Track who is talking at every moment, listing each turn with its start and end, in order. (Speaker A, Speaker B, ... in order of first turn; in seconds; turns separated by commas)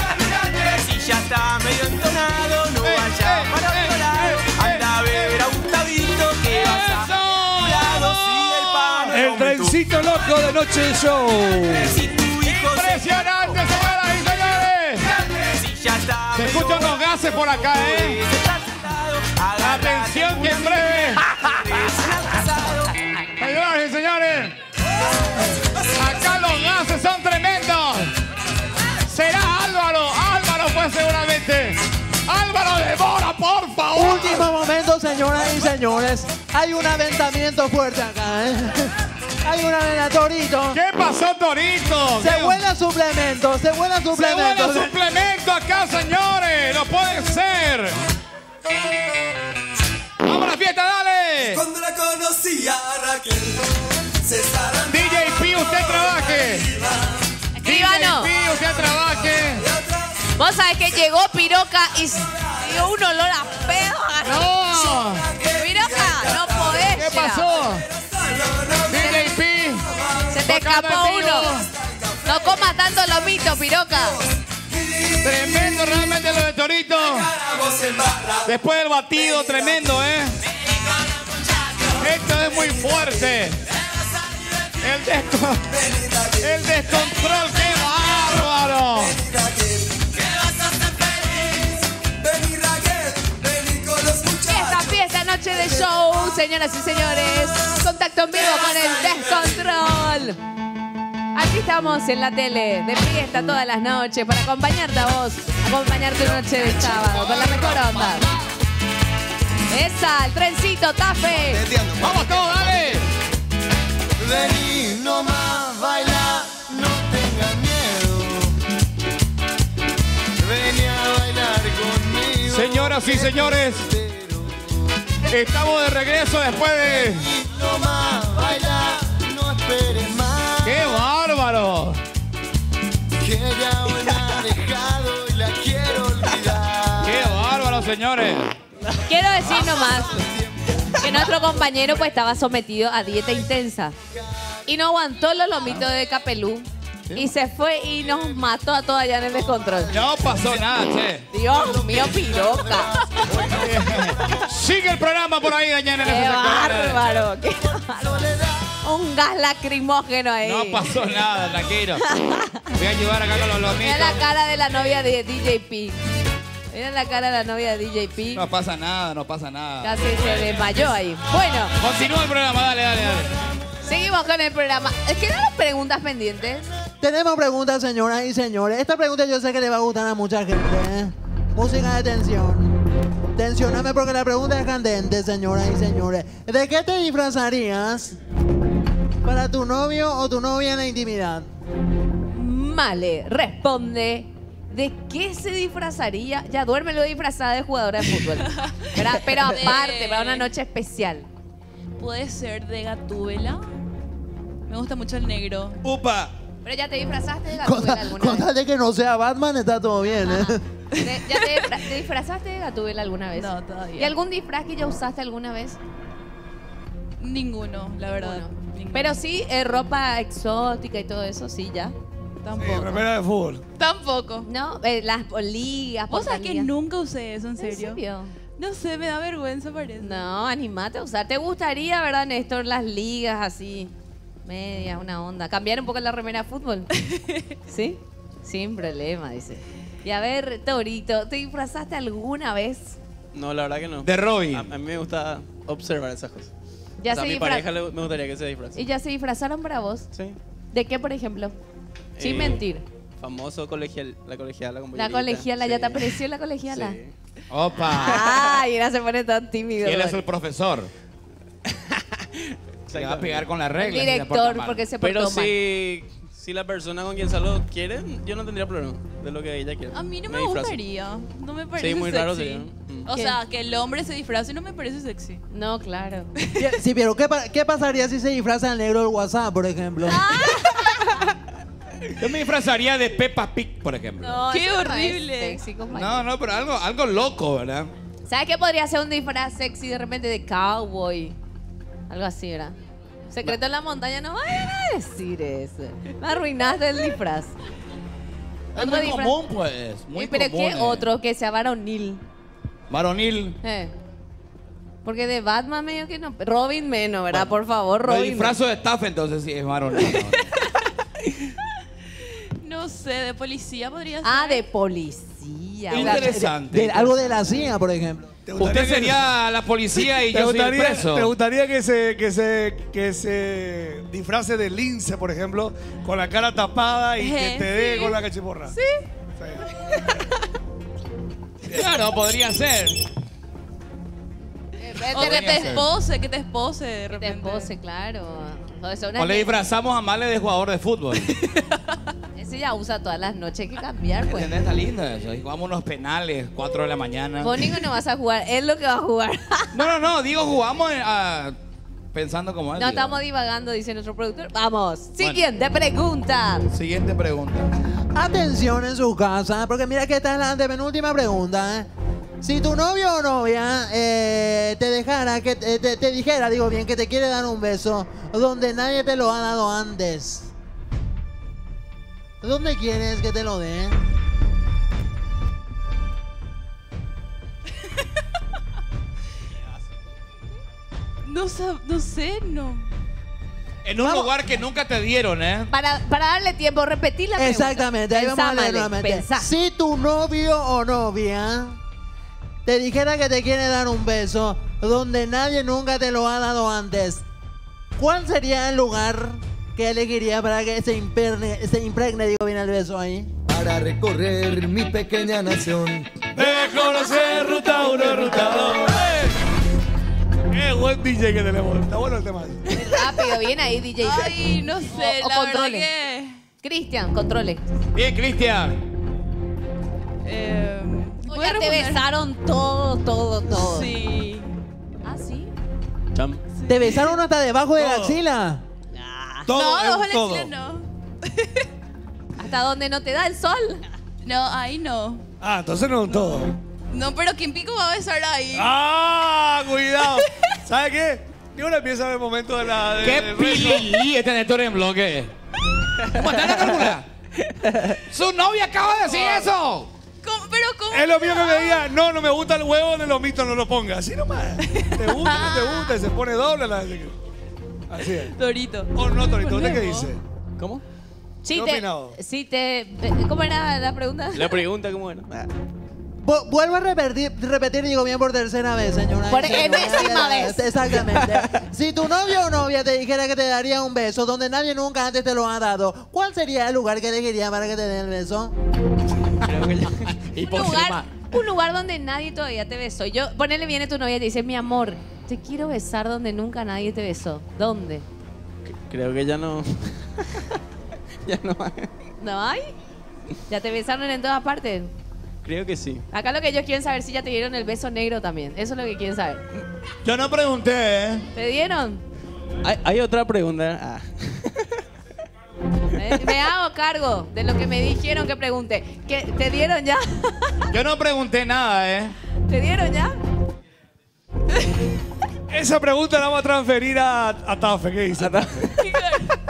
Speaker A: 0.5-10.5, Speaker B: 2.8-5.5, Speaker B: 6.4-9.2, Speaker C: 9.1-11.9, Speaker A: 11.7-13.6, Speaker B: 12.4-15.1, Speaker A: 15.4-22.8, Speaker B: 16.3-18.2, Speaker B: 19.6-21.3, Speaker B: 23.4-24.6, Speaker B: 26.0-28.1, Speaker B: 29.1-34.5, Speaker D: 33.9-38.9, Speaker D: 39.4-40.8, Speaker B: 40.7-42.6, Speaker D: 42.2-44.9, Speaker B: 44.1-48.0, Speaker B: 50.2-51.6, Speaker A: 51.6-53.6, Speaker A: 54.3-55.4, Speaker B: 54.9-56.7, Speaker E: 57.6-58.3, Speaker B: 57.6-59.7, Speaker E: 60.4-65.0, Speaker B: 64.2-65.3, Speaker E: 65.5-67.5, Speaker B: 66.7-67.8, Speaker B: 68.9-69.9, Speaker E: 68.9-69.3, Speaker E: 70.3-71.5, Speaker B: 70.5-71.7, Speaker E: 72.3-74.2, Speaker B: 75.2-77.3, Speaker A: 77.5-78.3, Speaker B: 78.5-80.4, Speaker B: 82.0-83.6, Speaker B: 84.8-85.7, Speaker B: 86.4-89.2, Speaker A: 92.3-94.8, Speaker E: 94.5-100.4, Speaker E: 101.3-108.3, Speaker E: 109.7-111.6, Speaker A: 111.8-112.1, Speaker B: 112.0-113.1, Speaker F: 121.6-123.3, Speaker B: 122.4-123.9, Speaker B: 125.3-127.3, Speaker A: 128.4-129.2, Speaker B: 130.6-132.0, Speaker A: 134.6-135.0, Speaker A: 135.7-137.1, Speaker B: 137.0-138.5, Speaker E: 139.1-140.2, Speaker E: 141.0-143.9, Speaker E: 144.7-150.0, Speaker B: 149.9-151.3, Speaker E: 151.3-153.1, Speaker B: 153.3-157.0, Speaker E: 156.0-158.3, Speaker E: 158.8-160.9, Speaker B: 160.4-162.0, Speaker E: 162.1-162.6, Speaker B: 162.7-164.2, Speaker E: 163.8-166.0, Speaker E: 166.7-168.4, Speaker B: 168.3-171.0, Speaker E: 169.8-171.8, Speaker B: 171.8-173.4, Speaker E: 173.8-176.7, Speaker D: 177.0-182.8, Speaker D: 183.4-188.2, Speaker D: 189.2-191.5, Speaker E: 192.3-201.3, Speaker G: 198.5-200.5, Speaker G: 202.0-203.7, Speaker G: 204.7-205.8, Speaker E: 206.7-208.5, Speaker D: 207.6-210.6, Speaker E: 210.3-215.8, Speaker G: 210.9-211.7, Speaker G: 213.3-214.1, Speaker G: 217.2-219.2, Speaker E: 218.1-221.9, Speaker G: 222.4-223.1, Speaker C: 222.6-223.6, Speaker G: 223.8-224.5, Speaker E: 224.4-226.7, Speaker G: 226.1-228.0, Speaker E: 227.6-228.3, Speaker G: 228.6-230.2, Speaker E: 230.0-233.9, Speaker E: 234.4-236.9, Speaker G: 237.0-237.5, Speaker E: 237.7-243.0, Speaker H: 243.3-246.5, Speaker B: 244.0-244.7, Speaker E: 247.0-247.7, Speaker H: 247.1-248.8, Speaker E: 248.8-250.1, Speaker E: 250.7-251.5, Speaker H: 252.2-252.6, Speaker E: 252.2-252.8, Speaker H: 253.2-256.2, Speaker E: 255.0-257.0, Speaker H: 256.7-257.1, Speaker B: 257.5-258.6, Speaker E: 258.0-260.2, Speaker B: 259.8-260.9, Speaker H: 261.7-263.5, Speaker B: 262.9-264.9, Speaker E: 263.8-265.5, Speaker H: 265.0-270.8, Speaker G: 269.9-275.4, Speaker H: 271.8-273.1, Speaker E: 273.1-273.4, Speaker E: 275.5-276.3, Speaker D: 276.6-280.3, Speaker E: 280.1-281.1, Speaker B: 282.2-284.4, Speaker E: 284.2-286.3, Speaker G: 284.5-285.6, Speaker B: 285.9-287.9, Speaker E: 288.3-291.4, Speaker E: 292.1-292.8, Speaker E: 293.3-297.5, Speaker B: 298.8-301.1, Speaker E: 298.8-299.3, Speaker E: 300.2-302.2, Speaker B: 302.9-303.6, Speaker E: 303.6-303.9, Speaker E: 305.1-308.6, Speaker B: 308.0-310.5, Speaker G: 312.6-314.6, Speaker E: 314.2-316.4, Speaker B: 315.9-317.2, Speaker D: 316.0-318.3, Speaker C: 318.5-319.2, Speaker B: 318.6-321.3, Speaker C: 320.3-328.8, Speaker G: 327.2-329.0, Speaker B: 331.7-333.0, Speaker E: 334.8-335.7, Speaker G: 335.1-337.7, Speaker B: 335.1-335.9, Speaker E: 337.1-339.6, Speaker B: 339.2-341.3, Speaker G: 341.3-341.8, Speaker E: 342.4-344.5, Speaker B: 344.3-347.8, Speaker E: 347.4-349.7, Speaker B: 349.7-351.6, Speaker B: 352.1-353.2, Speaker E: 352.8-356.7, Speaker B: 356.7-357.7, Speaker D: 358.1-361.9, Speaker D: 362.4-370.5, Speaker D: 372.4-374.0, Speaker G: 381.2-382.9, Speaker B: 383.9-385.7, Speaker D: 384.0-384.3, Speaker E: 385.7-389.5, Speaker D: 387.4-391.8, Speaker D: 392.7-397.2, Speaker D: 398.0-403.3, Speaker F: 403.6-406.0, Speaker C: 406.4-409.4, Speaker G: 406.5-408.4, Speaker C: 410.5-412.6, Speaker G: 412.7-413.0, Speaker E: 412.8-414.4, Speaker G: 414.0-416.4, Speaker E: 414.9-415.9, Speaker E: 416.6-417.6, Speaker B: 417.9-418.8, Speaker G: 420.2-422.0, Speaker E: 421.3-423.9, Speaker G: 423.5-424.5, Speaker E: 425.1-425.5, Speaker H: 426.1-426.4, Speaker G: 426.6-427.2, Speaker D: 426.7-428.6, Speaker C: 427.8-428.2, Speaker E: 428.9-429.5, Speaker C: 429.5-430.5, Speaker G: 429.5-431.7, Speaker E: 432.4-433.8, Speaker G: 434.2-435.2, Speaker C: 435.4-436.6, Speaker G: 436.1-436.4, Speaker G: 436.9-438.7, Speaker C: 438.5-443.9, Speaker B: 443.0-445.3, Speaker B: 446.1-447.1, Speaker H: 447.6-448.0, Speaker B: 448.1-449.9, Speaker C: 449.1-449.5, Speaker G: 450.2-451.9, Speaker C: 450.9-457.2, Speaker G: 454.7-456.0, Speaker C: 457.9-458.3, Speaker G: 458.2-460.1, Speaker C: 458.9-460.2, Speaker E: 461.4-464.5, Speaker C: 461.5-462.2, Speaker H: 464.3-465.5, Speaker D: 466.2-478.5, Speaker E: 469.3-470.6, Speaker H: 471.0-471.5, Speaker H: 479.4-480.1, Speaker B: 480.3-481.1, Speaker E: 480.4-488.1, Speaker H: 488.9-490.6, Speaker H: 491.3-491.9, Speaker E: 492.2-492.7, Speaker E: 493.5-494.9, Speaker H: 495.4-496.1, Speaker E: 496.1-499.4, Speaker B: 500.0-501.3, Speaker E: 501.4-502.0, Speaker H: 502.6-504.8, Speaker E: 506.0-510.3, Speaker B: 510.7-512.1, Speaker E: 512.5-513.2, Speaker C: 515.5-518.6, Speaker H: 518.2-518.6, Speaker G: 518.8-519.3